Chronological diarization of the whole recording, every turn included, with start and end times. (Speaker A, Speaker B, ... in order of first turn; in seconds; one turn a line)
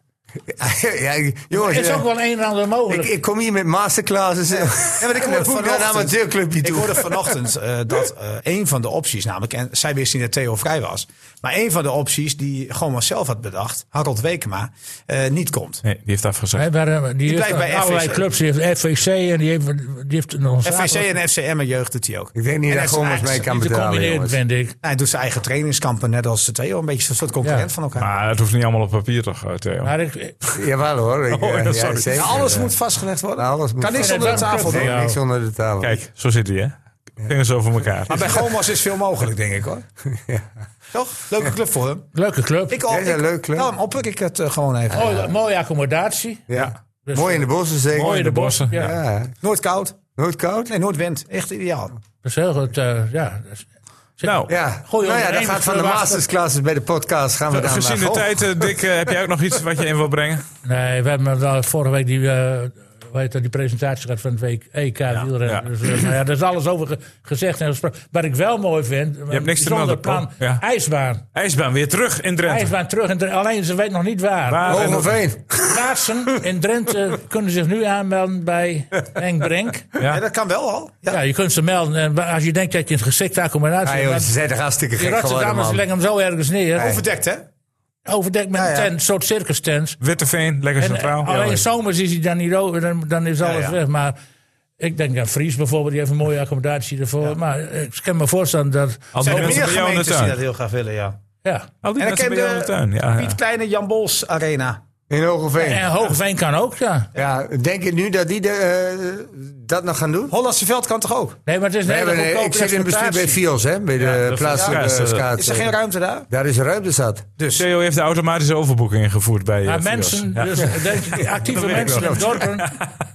Speaker A: 0.4-2.1
Speaker B: 1.5-3.1
Speaker A: 2.9-7.3
Speaker C: 4.5-15.8
Speaker D: 15.8-16.7
Speaker B: 16.6-21.0
Speaker C: 17.2-18.2
Speaker C: 20.6-23.5
Speaker A: 22.3-24.4
Speaker B: 23.3-24.7
Speaker C: 24.8-28.1
Speaker B: 27.4-27.7
Speaker D: 27.9-29.9
Speaker B: 29.8-30.4
Speaker A: 30.5-32.7
Speaker D: 31.3-32.3
Speaker C: 32.1-35.0
Speaker A: 33.4-36.0
Speaker B: 33.9-35.2
Speaker D: 35.8-38.5
Speaker C: 38.1-39.8
Speaker A: 40.0-40.5
Speaker C: 40.9-42.1
Speaker B: 42.1-42.8
Speaker C: 42.7-45.2
Speaker A: 42.9-43.7
Speaker B: 44.9-46.5
Speaker A: 44.9-45.3
Speaker A: 46.5-48.2
Speaker B: 47.0-48.9
Speaker D: 47.9-48.8
Speaker A: 48.7-49.3
Speaker C: 49.4-50.0
Speaker A: 50.1-50.7
Speaker C: 50.7-51.9
Speaker B: 52.2-53.7
Speaker B: 54.2-56.2
Speaker D: 54.2-54.5
Speaker A: 54.5-58.7
Speaker D: 57.5-60.5
Speaker B: 60.6-71.2
Speaker D: 65.5-65.9
Speaker D: 69.3-70.6
Speaker D: 71.3-72.7
Speaker B: 72.5-75.0
Speaker D: 74.5-75.2
Speaker A: 74.6-75.8
Speaker B: 75.5-79.9
Speaker C: 80.0-81.2
Speaker B: 81.1-84.3
Speaker A: 83.8-85.8
Speaker B: 85.0-87.0
Speaker C: 86.8-87.4
Speaker A: 86.8-87.0
Speaker B: 88.0-90.0
Speaker C: 88.5-88.9
Speaker D: 90.0-91.5
Speaker B: 90.8-94.2
Speaker C: 93.4-93.8
Speaker B: 94.8-99.5
Speaker D: 99.1-100.4
Speaker C: 99.2-101.2
Speaker B: 101.4-101.7
Speaker D: 101.8-103.3
Speaker C: 102.0-104.8
Speaker A: 105.1-105.9
Speaker B: 105.6-107.1
Speaker A: 107.1-110.3
Speaker C: 110.3-111.4
Speaker B: 111.5-113.4
Speaker A: 111.8-115.8
Speaker D: 114.0-115.3
Speaker C: 115.3-116.3
Speaker A: 116.3-117.2
Speaker C: 117.4-117.6
Speaker D: 117.5-122.8
Speaker B: 119.6-122.7
Speaker A: 121.5-122.5